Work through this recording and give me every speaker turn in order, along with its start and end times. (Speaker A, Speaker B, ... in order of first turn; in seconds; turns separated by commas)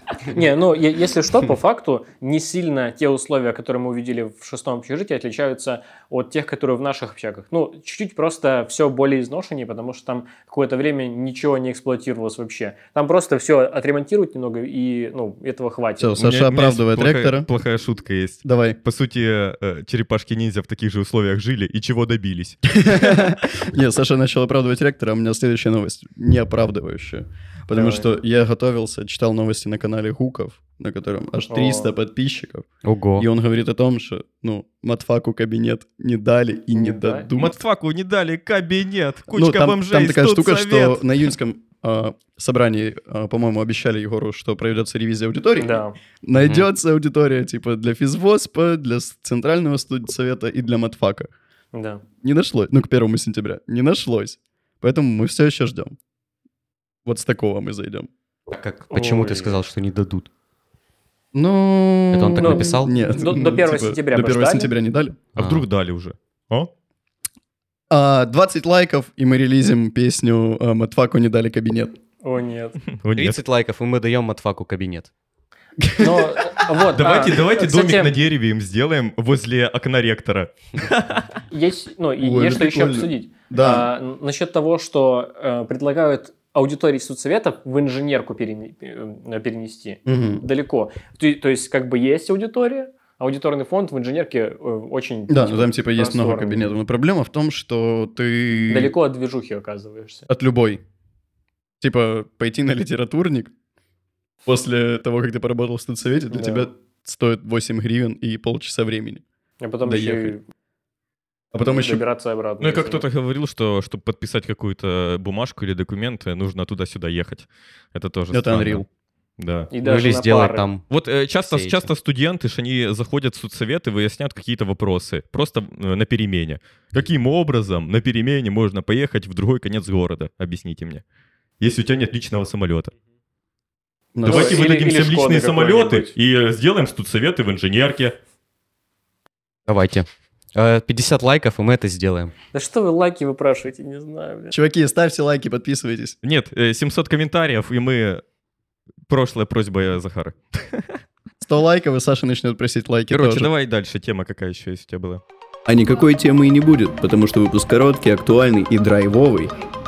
Speaker A: 0.3-16.1, Speaker B: 16.0-17.5, Speaker C: 16.2-23.3, Speaker B: 18.4-18.8, Speaker B: 22.8-32.6, Speaker A: 27.7-28.1, Speaker A: 31.5-31.9, Speaker D: 32.9-33.3, Speaker B: 33.2-37.6, Speaker A: 36.8-37.3, Speaker C: 37.4-41.3, Speaker B: 39.3-51.3, Speaker A: 45.6-46.0, Speaker A: 51.7-52.0, Speaker B: 52.2-56.0, Speaker B: 57.1-58.1, Speaker D: 58.5-60.3, Speaker A: 58.9-59.6, Speaker B: 61.3-65.2, Speaker D: 62.1-62.9, Speaker A: 62.4-64.7, Speaker C: 65.3-66.7, Speaker D: 65.4-65.7, Speaker B: 67.9-72.0, Speaker A: 72.2-72.8, Speaker C: 73.0-73.4, Speaker D: 73.2-75.1, Speaker B: 75.8-76.4, Speaker A: 76.0-78.1, Speaker C: 77.0-81.2, Speaker A: 81.5-96.7, Speaker B: 82.2-83.9, Speaker B: 90.1-90.4, Speaker B: 95.3-98.9, Speaker A: 98.7-100.3, Speaker B: 100.3-100.8, Speaker B: 101.8-103.5, Speaker B: 104.5-109.2, Speaker A: 106.3-106.7, Speaker A: 109.6-110.5, Speaker B: 109.8-110.4, Speaker B: 111.5-112.0, Speaker A: 111.7-113.0, Speaker C: 112.6-118.8, Speaker B: 118.3-118.8, Speaker C: 119.4-119.7, Speaker A: 119.7-120.7, Speaker D: 119.8-120.8, Speaker C: 120.9-131.0, Speaker D: 121.5-121.9, Speaker C: 131.6-132.9, Speaker B: 134.2-134.7, Speaker A: 134.2-136.2, Speaker C: 134.2-138.2, Speaker D: 139.7-142.3, Speaker A: 142.5-144.6, Speaker B: 144.5-146.2, Speaker C: 146.2-148.2, Speaker C: 149.1-150.9, Speaker B: 151.4-153.5, Speaker C: 153.1-155.2, Speaker B: 155.7-159.5